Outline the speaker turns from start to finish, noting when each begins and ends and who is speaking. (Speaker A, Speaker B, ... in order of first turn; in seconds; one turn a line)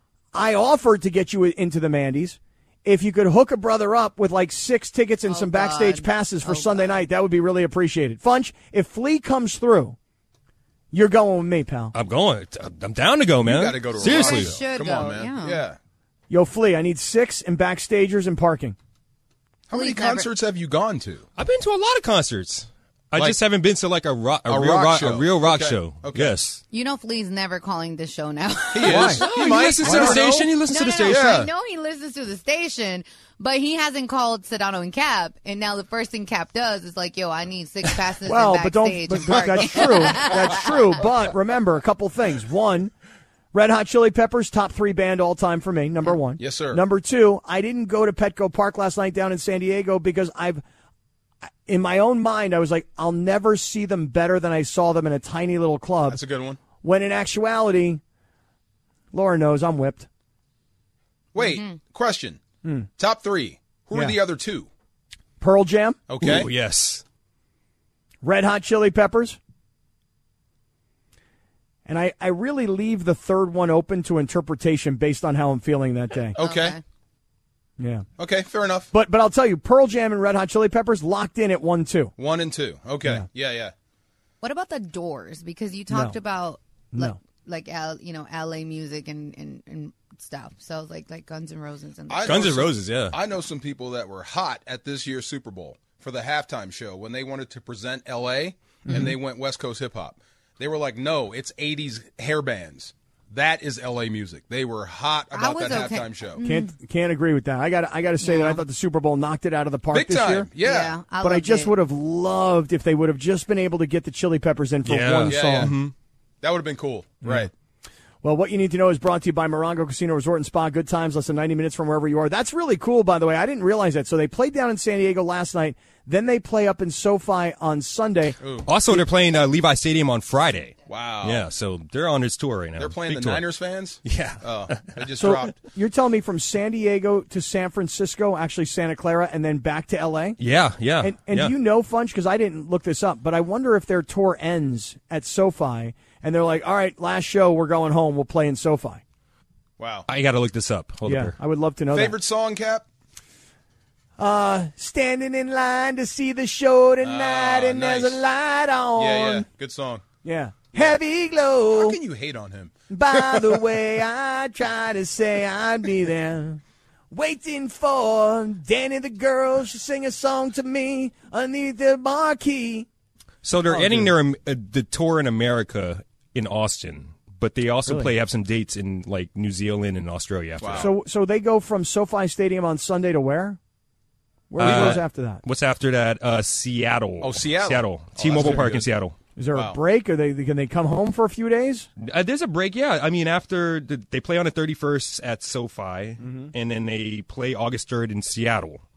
Speaker A: 0.3-10.0
Speaker B: 5.3-7.0
Speaker A: 10.9-11.9
Speaker C: 11.9-14.6
Speaker D: 13.4-15.8
Speaker B: 14.0-15.6
Speaker A: 16.3-18.8
Speaker D: 19.7-21.3
Speaker B: 19.7-20.3
Speaker C: 21.4-26.6
Speaker D: 24.5-26.4
Speaker B: 26.7-29.1
Speaker D: 28.7-30.5
Speaker A: 28.9-29.2
Speaker C: 28.9-31.4
Speaker B: 30.7-41.0
Speaker D: 31.1-31.5
Speaker A: 38.3-42.9
Speaker D: 39.3-41.0
Speaker A: 43.5-50.6
Speaker D: 46.4-46.8
Speaker A: 51.7-56.2
Speaker D: 56.1-56.6
Speaker A: 56.8-58.0
Speaker A: 59.1-60.1
Speaker D: 61.3-62.4
Speaker B: 61.4-61.7
Speaker A: 62.6-62.9
Speaker D: 63.0-64.7
Speaker A: 65.4-66.0
Speaker D: 66.1-66.5
Speaker C: 66.2-67.0
Speaker A: 68.2-69.4
Speaker A: 71.9-76.4
Speaker D: 76.3-76.8
Speaker B: 76.4-76.8
Speaker A: 77.8-78.1
Speaker D: 78.2-78.9
Speaker A: 78.9-82.1
Speaker D: 82.2-83.7
Speaker B: 84.4-92.5
Speaker A: 85.9-86.2
Speaker A: 86.9-87.2
Speaker D: 92.1-106.4
Speaker C: 92.2-93.2
Speaker B: 105.3-106.7
Speaker A: 106.4-110.5
Speaker B: 108.2-108.6
Speaker D: 109.9-110.9
Speaker B: 110.6-111.7
Speaker A: 111.2-115.8
Speaker C: 114.8-115.9
Speaker D: 115.3-115.8
Speaker D: 116.4-117.5
Speaker A: 118.2-128.4
Speaker D: 128.4-128.7
Speaker C: 128.7-133.4
Speaker D: 130.9-131.4
Speaker D: 132.8-135.6
Speaker C: 134.0-135.0
Speaker A: 135.2-140.4
Speaker C: 140.4-141.5
Speaker A: 141.0-149.0
Speaker D: 149.8-150.1
Speaker C: 150.1-151.4
Speaker A: 151.1-152.2
Speaker D: 151.9-152.8
Speaker A: 154.2-159.5
Speaker D: 157.0-158.2
Speaker D: 159.0-160.0
Speaker A: 160.2-162.0
Speaker D: 161.7-163.6
Speaker A: 162.9-172.9
Speaker C: 173.4-180.9
Speaker A: 173.7-174.1
Speaker A: 177.9-178.1
Speaker D: 180.6-180.9
Speaker A: 180.8-183.6
Speaker A: 184.5-185.4
Speaker C: 184.6-189.2
Speaker D: 184.6-185.0
Speaker D: 187.2-188.9
Speaker A: 189.4-191.9
Speaker D: 189.5-189.8
Speaker C: 192.0-198.8
Speaker A: 196.2-196.5